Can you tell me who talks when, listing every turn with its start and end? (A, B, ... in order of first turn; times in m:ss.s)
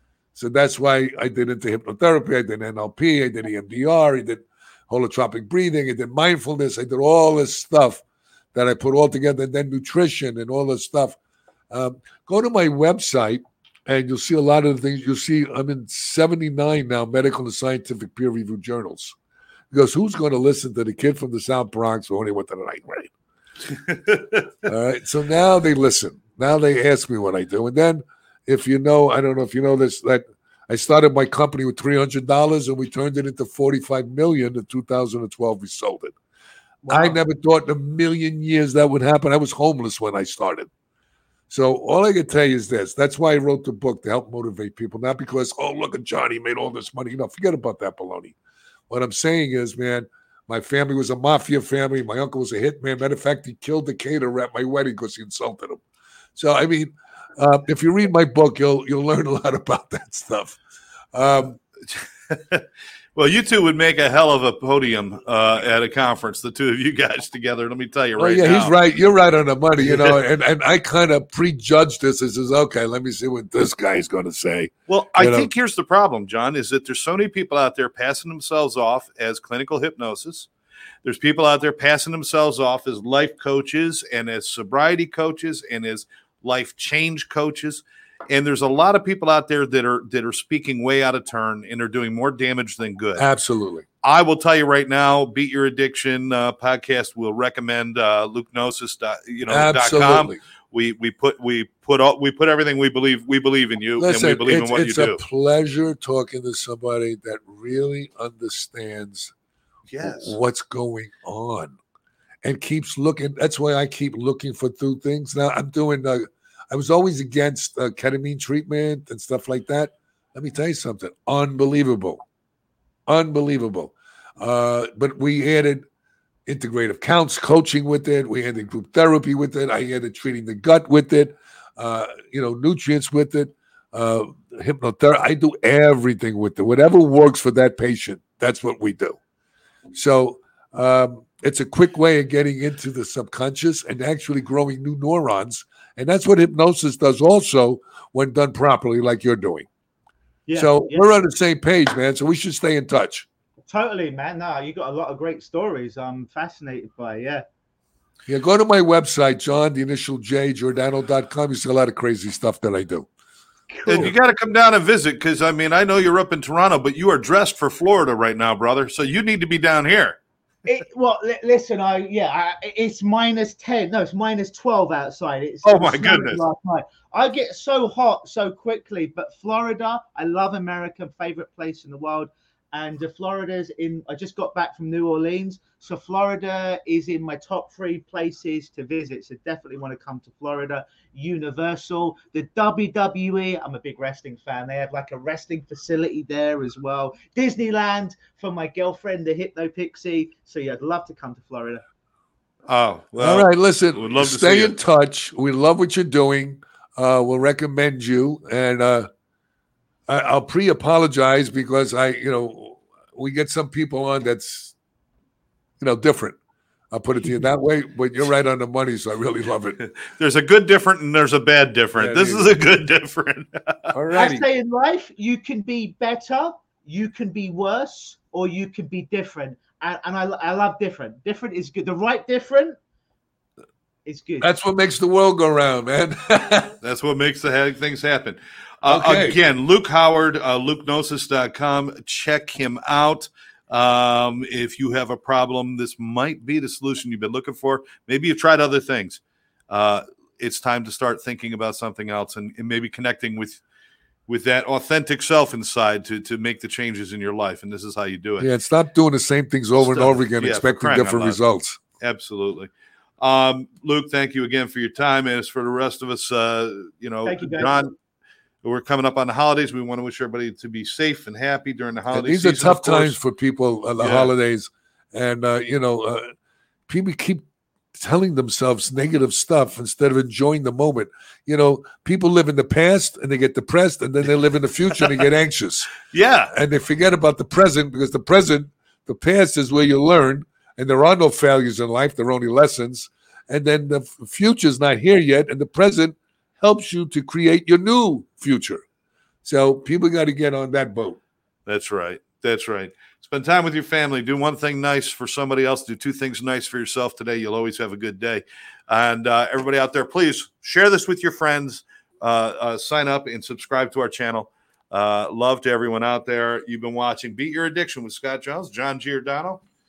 0:00.4-0:08.0 A
0:08.5-0:11.2 A
0:11.7-0:19.2 A
0:19.7-0:23.1 A
0:23.9-0:24.4 B
0:24.6-0:36.2 A
0:36.8-0:37.2 C
0:36.9-0:40.7 A
0:41.5-0:48.4 A
0:48.9-0:55.8 A
0:56.4-1:00.6 A
1:01.1-1:01.6 A
1:01.9-1:02.6 B
1:03.2-1:08.7 B
1:08.2-1:15.5 A
1:09.8-1:10.2 B
1:14.9-1:20.5 B
1:21.0-1:33.3 B
1:33.2-1:33.9 A
1:34.0-1:45.2 B
1:39.5-1:40.4 A
1:44.0-1:49.3 A
1:49.9-1:50.4 B
1:50.0-1:51.8 A
1:52.4-2:02.2 A
2:03.1-2:05.8 A
2:06.5-2:19.2 A
2:19.9-2:29.7 A
2:30.5-2:31.1 C
2:30.6-2:33.3 A
2:33.7-2:37.4 C
2:38.3-2:43.1 A
2:43.7-2:44.1 C
2:43.9-2:50.2 B
2:50.7-3:21.8 C
2:55.6-2:56.4 B
3:22.7-3:24.8 B
3:23.2-3:29.1 A
3:30.1-3:34.8 A
3:35.8-3:36.4 A
3:36.9-3:39.8 A
3:39.8-3:44.0 B
3:42.0-3:42.5 A
3:43.9-3:44.4 A
3:44.1-3:52.8 C
3:54.1-3:54.5 C
3:54.4-3:56.8 A
3:56.8-4:13.6 B
3:58.9-3:59.4 A
4:14.3-4:18.5 B
4:18.4-4:21.8 A
4:19.8-4:21.4 B
4:22.0-4:27.9 B
4:27.2-4:27.8 C
4:28.6-4:33.2 B
4:32.1-4:36.3 A
4:34.0-4:34.3 B
4:36.9-4:45.9 A
4:46.1-4:46.5 B
4:46.5-4:58.8 A
4:59.4-5:01.2 A
5:01.7-5:19.6 B